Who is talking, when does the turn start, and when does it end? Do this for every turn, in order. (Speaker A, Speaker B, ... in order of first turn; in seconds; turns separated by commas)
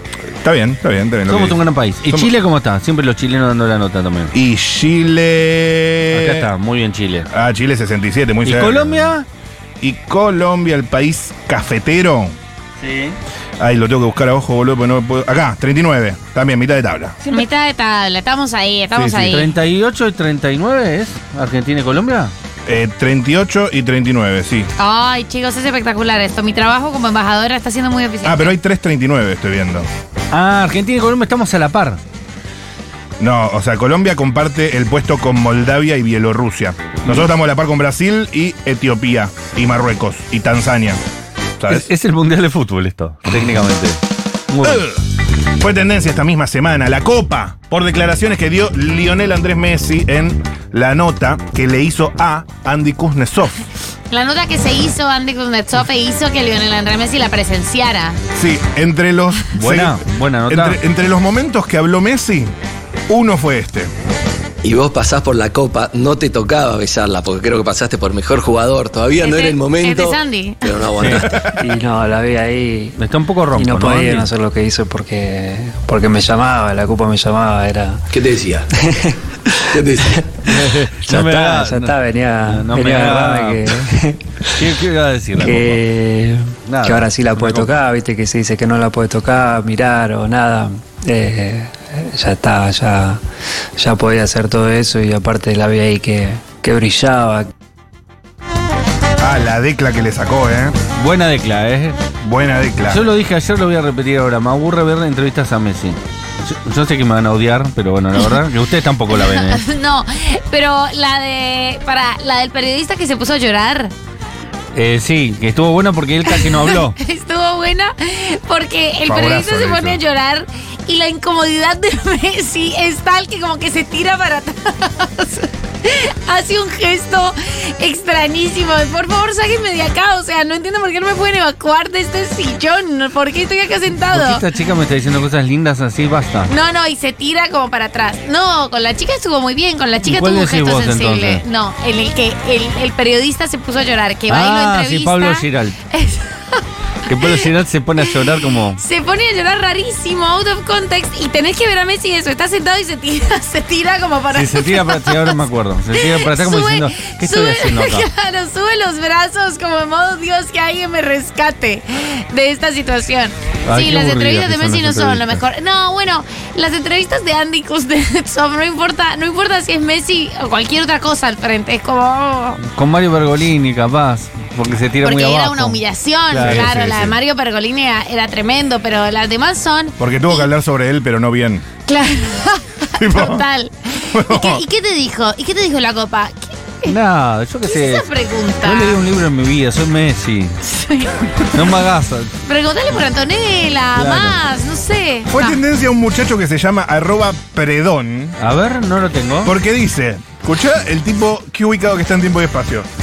Speaker A: 0.4-2.3, Speaker B: 1.3-4.3, Speaker A: 4.3-6.5, Speaker B: 6.1-7.3, Speaker A: 7.3-9.1, Speaker B: 8.4-9.3, Speaker A: 9.8-12.3, Speaker B: 12.8-13.2, Speaker A: 13.6-17.2, Speaker C: 17.3-19.5, Speaker A: 19.0-19.2, Speaker B: 19.2-22.3, Speaker A: 22.6-24.7, Speaker C: 24.8-28.5, Speaker A: 28.2-29.9, Speaker B: 30.3-32.0, Speaker A: 33.2-41.0, Speaker A: 41.6-41.9, Speaker B: 41.7-44.8, Speaker A: 44.6-45.0, Speaker A: 45.6-53.6, Speaker C: 54.1-58.2, Speaker A: 58.3-62.5, Speaker B: 59.5-60.8, Speaker A: 63.1-63.9, Speaker D: 64.6-71.5, Speaker C: 69.2-70.7, Speaker B: 71.0-71.3, Speaker A: 71.3-71.6, Speaker E: 71.5-73.0, Speaker B: 73.0-74.3, Speaker E: 73.5-78.1, Speaker D: 78.1-78.7, Speaker E: 78.7-79.1, Speaker D: 79.7-80.2, Speaker E: 79.7-84.7, Speaker B: 80.5-83.8, Speaker B: 84.5-85.8, Speaker E: 85.3-93.2, Speaker B: 86.6-87.7, Speaker E: 93.8-97.5, Speaker A: 99.2-100.8, Speaker B: 101.0-102.0, Speaker A: 102.2-103.1, Speaker B: 102.8-109.6, Speaker C: 109.1-113.9, Speaker B: 114.7-117.0, Speaker C: 116.3-134.4, Speaker A: 119.1-120.0, Speaker B: 134.1-136.5, Speaker C: 136.5-147.4, Speaker B: 140.0-141.4, Speaker B: 144.3-145.8, Speaker B: 147.1-148.8, Speaker C: 148.2-155.4, Speaker B: 154.3-158.1, Speaker C: 155.9-172.6, Speaker B: 163.7-165.4, Speaker B: 172.6-175.8, Speaker C: 175.0-180.5, Speaker B: 176.3-176.7, Speaker A: 176.4-177.2, Speaker A: 180.0-181.7, Speaker C: 181.9-186.9, Speaker A: 183.0-183.4, Speaker A: 184.1-184.6, Speaker B: 186.9-188.1, Speaker C: 187.6-189.0, Speaker B: 188.6-190.6, Speaker C: 190.6-191.5, Speaker B: 191.5-192.3, Speaker C: 192.4-195.6, Speaker B: 193.9-194.4, Speaker A: 195.3-198.3, Speaker B: 198.4-199.5, Speaker A: 199.4-202.9